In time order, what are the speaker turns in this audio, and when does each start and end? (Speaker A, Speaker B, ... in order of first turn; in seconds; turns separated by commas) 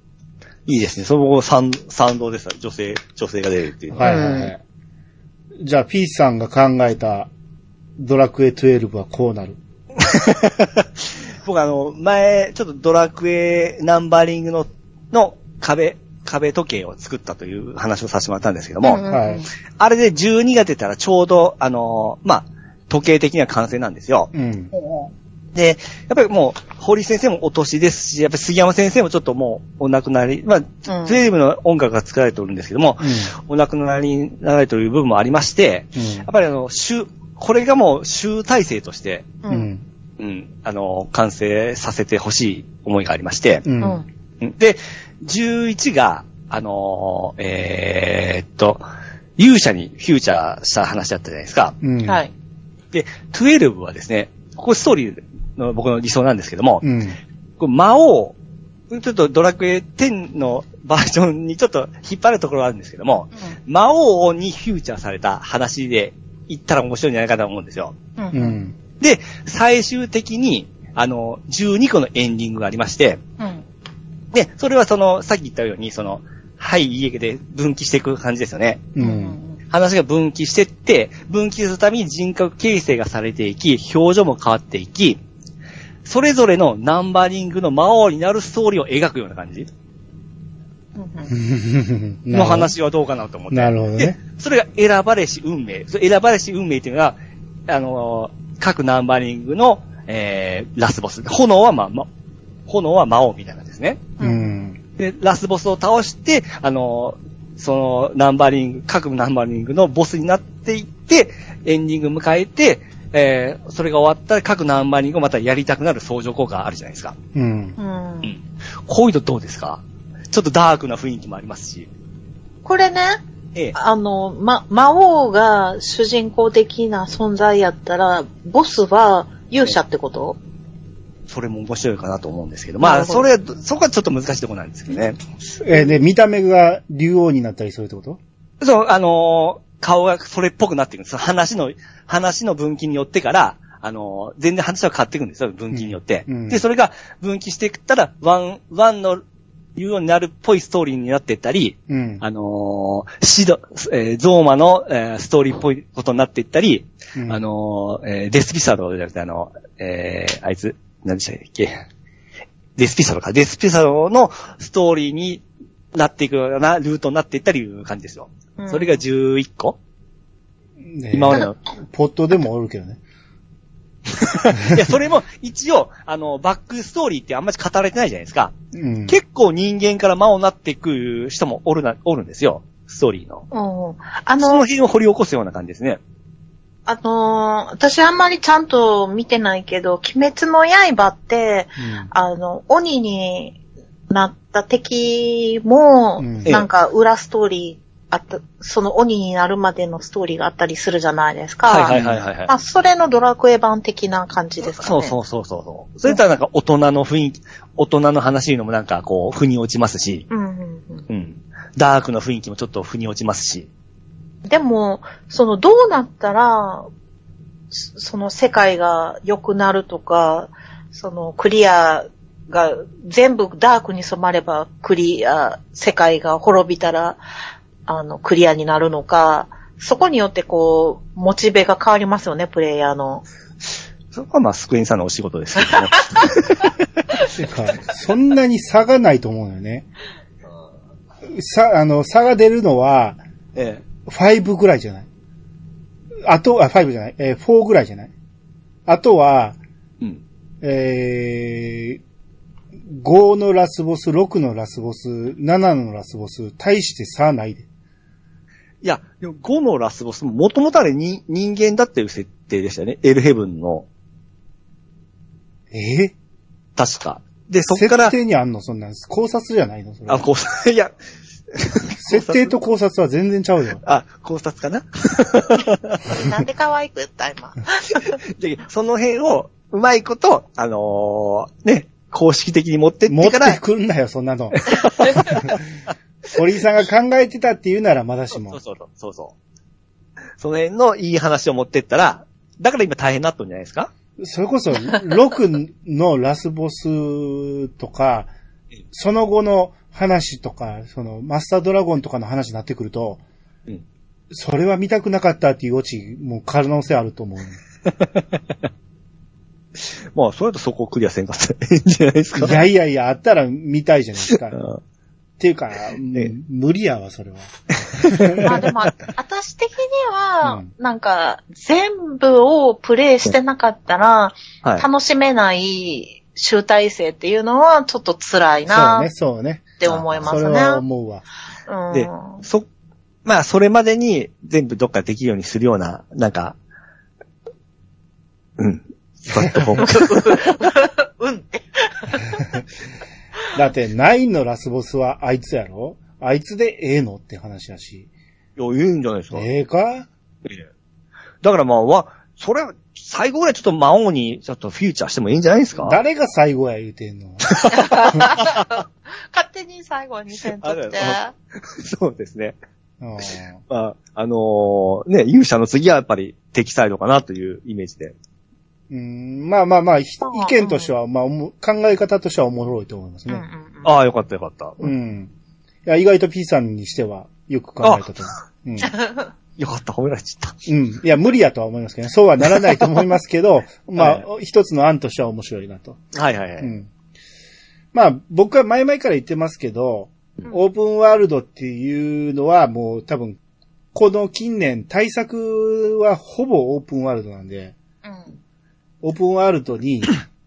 Speaker A: 0.7-4.2, Speaker B: 3.9-4.6, Speaker C: 4.0-4.5, Speaker B: 5.6-7.3, Speaker B: 8.0-9.6, Speaker A: 10.0-10.9, Speaker A: 11.4-19.0, Speaker C: 18.8-19.5, Speaker B: 19.0-19.4, Speaker A: 19.8-24.3, Speaker B: 24.3-24.7, Speaker C: 24.7-25.1, Speaker A: 25.5-39.3, Speaker C: 30.9-31.2, Speaker B: 33.0-33.3, Speaker B: 36.0-36.2, Speaker C: 39.4-39.7, Speaker B: 39.5-39.8, Speaker A: 40.2-43.6, Speaker B: 43.6-44.0, Speaker C: 43.8-44.0, Speaker A: 44.4-48.8, Speaker A: 49.4-51.8, Speaker B: 51.8-52.2, Speaker C: 52.0-52.3, Speaker A: 52.9-56.8, Speaker B: 56.8-57.2, Speaker A: 57.6-58.3, Speaker A: 58.9-67.9, Speaker C: 68.2-68.5, Speaker B: 68.3-68.8, Speaker A: 69.0-73.2, Speaker C: 73.4-73.6, Speaker A: 74.3-78.9, Speaker B: 79.0-79.4, Speaker C: 79.0-79.6, Speaker A: 79.7-85.2, Speaker A: 86.0-89.7, Speaker C: 91.0-91.3, Speaker B: 91.3-92.7, Speaker A: 92.3-97.2, Speaker B: 93.5-94.2, Speaker A: 97.7-102.1, Speaker A: 102.7-104.1, Speaker C: 104.2-104.5, Speaker B: 104.2-104.8, Speaker A: 105.0-117.2, Speaker B: 117.3-117.8, Speaker C: 117.8-118.3, Speaker A: 118.2-121.9, Speaker C: 122.6-123.2, Speaker C: 123.7-130.4, Speaker A: 131.3-135.2, Speaker C: 132.8-133.3, Speaker B: 135.6-138.2, Speaker A: 138.6-149.2, Speaker B: 145.7-146.6, Speaker A: 149.8-161.7, Speaker B: 151.9-152.2, Speaker B: 157.2-157.4, Speaker A: 162.8-165.4, Speaker A: 165.9-169.8, Speaker C: 168.6-169.0, Speaker B: 170.8-173.0, Speaker A: 171.1-171.5, Speaker A: 174.1-178.5, Speaker B: 174.5-174.8, Speaker B: 178.7-179.2, Speaker A: 179.1-183.4, Speaker C: 183.5-184.6, Speaker A: 184.4-186.0, Speaker C: 186.9-193.6, Speaker B: 191.8-192.1, Speaker C: 194.1-205.2, Speaker B: 196.2-196.5, Speaker A: 201.7-202.5, Speaker B: 201.9-202.2, Speaker A: 204.7-210.3, Speaker C: 210.3-211.1, Speaker A: 211.1-213.7, Speaker C: 214.4-216.9, Speaker C: 217.7-227.2, Speaker C: 227.9-233.2, Speaker A: 234.1-236.7, Speaker B: 237.3-239.8, Speaker B: 241.3-243.2, Speaker A: 243.5-243.8, Speaker B: 244.1-245.1, Speaker B: 246.2-248.1, Speaker B: 248.8-249.6, Speaker B: 250.6-252.0, Speaker B: 252.9-257.7, Speaker A: 258.8-263.9, Speaker B: 265.7-266.1, Speaker A: 266.8-268.1, Speaker B: 267.7-270.2, Speaker A: 270.1-270.9, Speaker A: 271.5-272.5, Speaker B: 272.0-273.8, Speaker A: 273.8-276.0, Speaker C: 276.1-278.2, Speaker A: 278.4-283.6, Speaker B: 283.1-285.6, Speaker A: 284.6-285.6, Speaker B: 286.3-288.6, Speaker A: 288.5-289.3, Speaker A: 290.4-293.9, Speaker B: 294.2-298.3, Speaker B: 298.9-303.2, Speaker B: 304.3-307.6, Speaker A: 307.9-308.4, Speaker A: 309.8-312.6, Speaker B: 312.4-314.6, Speaker A: 314.5-314.8, Speaker B: 315.4-318.6, Speaker A: 317.9-318.5, Speaker C: 318.4-329.1, Speaker B: 328.7-331.2, Speaker C: 329.8-330.8, Speaker A: 329.9-330.3, Speaker C: 331.7-332.4, Speaker A: 331.9-332.6, Speaker A: 333.2-336.5, Speaker A: 338.6-340.5, Speaker B: 339.4-339.8, Speaker C: 339.8-342.4, Speaker B: 343.5-348.1, Speaker A: 348.6-349.5, Speaker B: 349.3-350.1, Speaker A: 351.4-356.0, Speaker B: 355.8-357.5, Speaker A: 357.4-358.7, Speaker C: 357.7-361.3, Speaker A: 360.6-362.6, Speaker B: 363.0-363.6, Speaker A: 363.7-368.1, Speaker B: 368.9-373.4, Speaker C: 370.2-370.9, Speaker C: 373.3-374.0, Speaker A: 373.8-374.9, Speaker B: 374.8-375.3, Speaker B: 375.8-378.9, Speaker A: 377.8-378.1, Speaker C: 378.8-379.3, Speaker A: 379.6-380.6, Speaker B: 380.7-386.0, Speaker A: 384.0-384.2, Speaker A: 386.1-386.7, Speaker B: 386.6-386.9, Speaker B: 387.9-393.4, Speaker B: 393.9-397.7, Speaker C: 398.0-398.4, Speaker B: 399.0-400.2